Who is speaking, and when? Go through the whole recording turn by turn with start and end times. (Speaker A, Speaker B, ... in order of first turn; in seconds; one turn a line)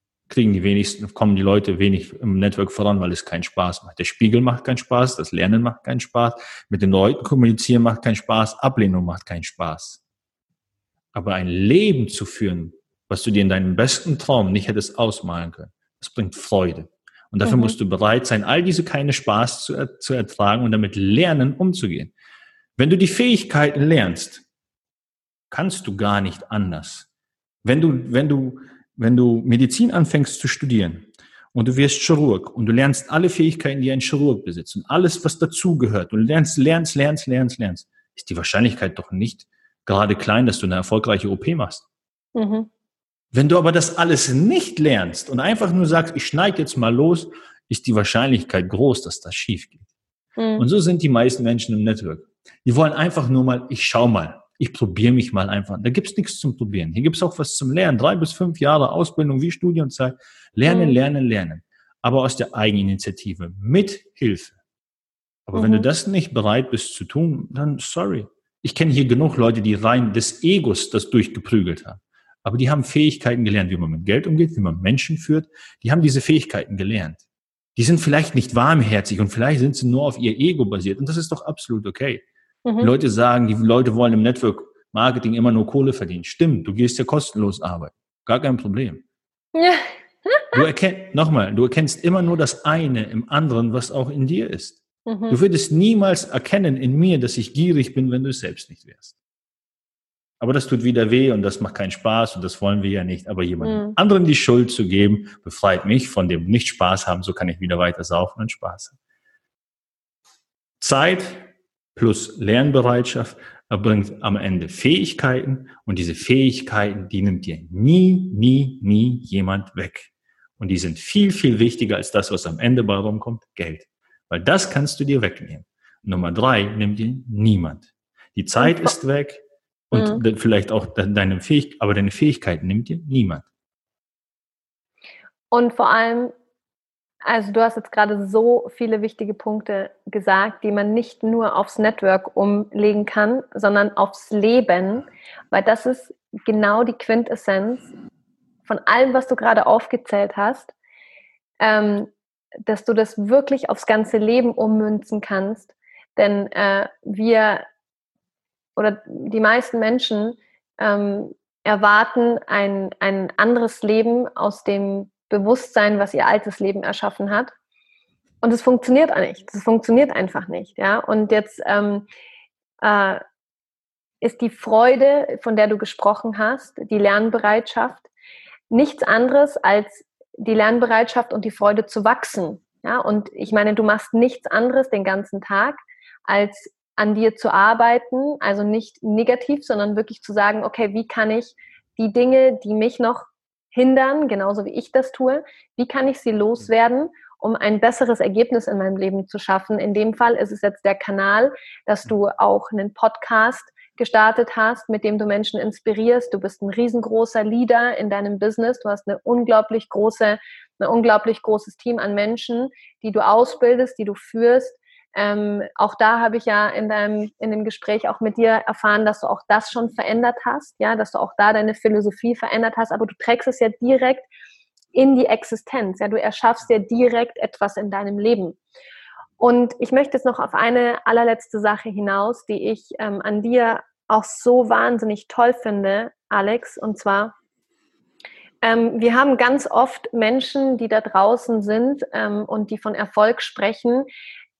Speaker A: 0.3-10.0
Speaker A: 11.1-22.1
Speaker B: 17.4-17.7
Speaker A: 22.8-24.4
Speaker A: 25.5-27.1
Speaker A: 27.6-41.8
Speaker B: 42.3-42.7
Speaker A: 43.3-49.8
Speaker B: 50.4-50.6
Speaker A: 50.6-64.5
Speaker B: 60.6-61.0
Speaker A: 65.5-77.2
Speaker B: 65.5-65.8
Speaker A: 77.8-82.2
Speaker B: 82.7-82.9
Speaker A: 82.8-89.0
Speaker B: 89.5-90.6
Speaker A: 90.5-99.1
Speaker B: 95.0-95.4
Speaker A: 100.4-109.0
Speaker B: 103.6-104.0
Speaker A: 110.8-133.4
Speaker B: 128.6-128.9
Speaker B: 129.9-130.2
Speaker B: 135.5-136.3
Speaker B: 137.2-147.9
Speaker B: 148.7-150.7
Speaker B: 151.6-152.1
Speaker B: 152.7-157.6
Speaker B: 158.8-167.5
Speaker B: 168.4-172.0
Speaker B: 172.8-173.2
Speaker B: 174.2-178.1
Speaker B: 178.7-224.3
Speaker B: 224.9-228.6
Speaker B: 229.4-237.3
Speaker B: 238.6-244.1